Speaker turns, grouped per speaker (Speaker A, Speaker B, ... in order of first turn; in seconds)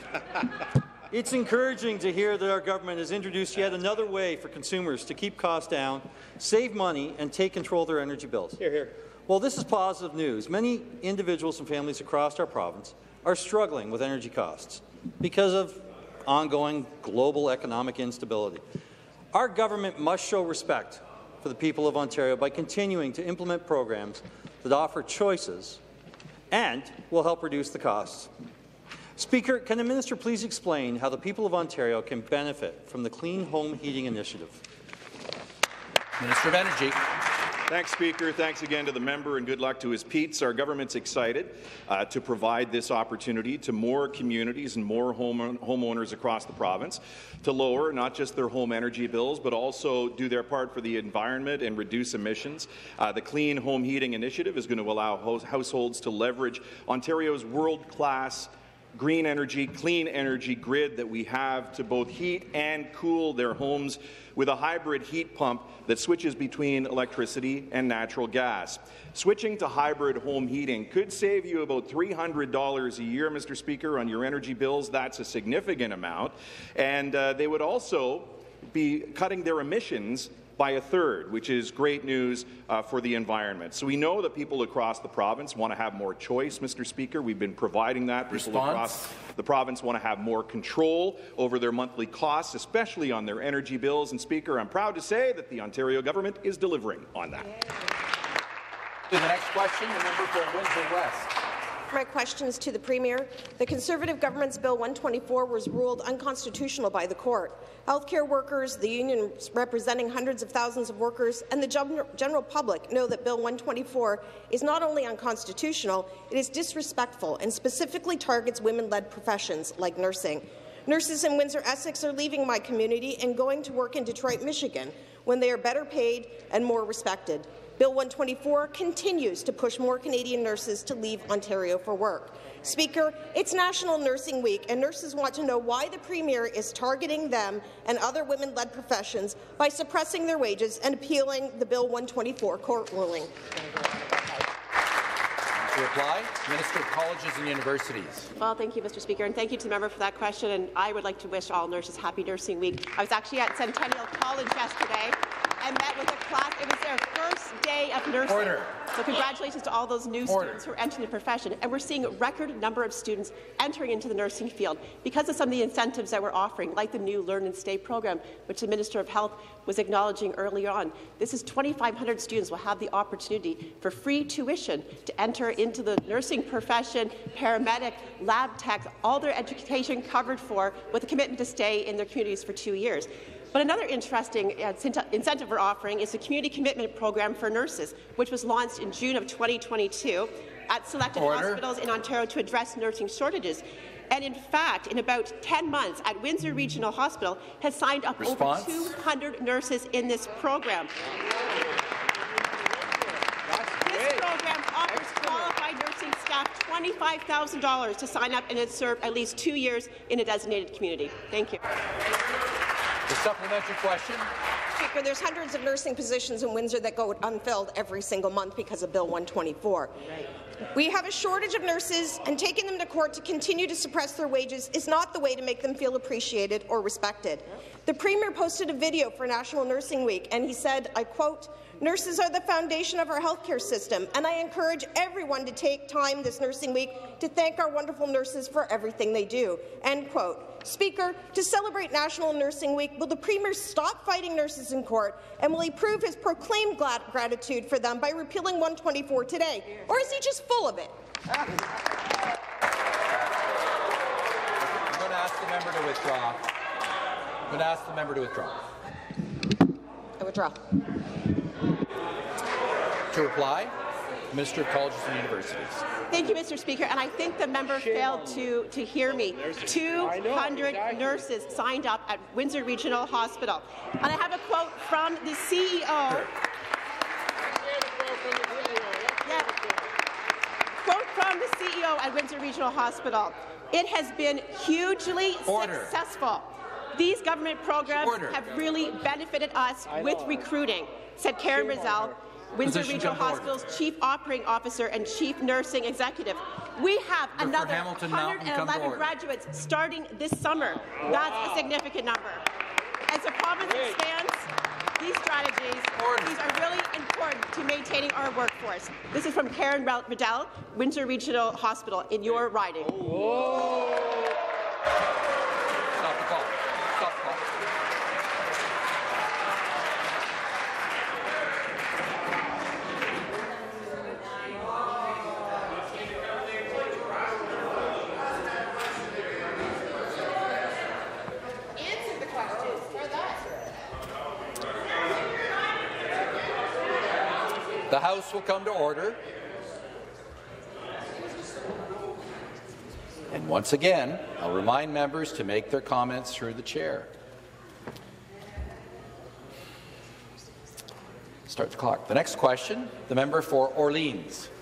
Speaker A: 1.1-18.6, 19.3-25.8, 26.5-28.3, 29.1-34.6
Speaker B: 36.2-37.0, 88.3-89.0, 99.1-101.3, 145.6-148.3, 158.2-158.7, 160.3-160.6, 191.1-191.6, 198.2-198.9, 213.1-214.3, 254.7-256.4, 257.5-258.6, 263.1-263.7, 264.3-265.9, 285.5-285.9, 287.9-288.4, 292.6-293.6, 297.3-299.1, 306.0-306.4, 315.9-317.4, 337.9-339.2, 343.3-347.1, 351.5-354.5
Speaker C: 37.7-97.5
Speaker D: 101.9-143.4, 214.7-220.2, 220.7-250.9, 260.2-260.6
Speaker E: 148.4-200.9, 203.7-211.6, 266.1-276.3, 279.2-279.5, 280.8-302.4, 303.1-313.0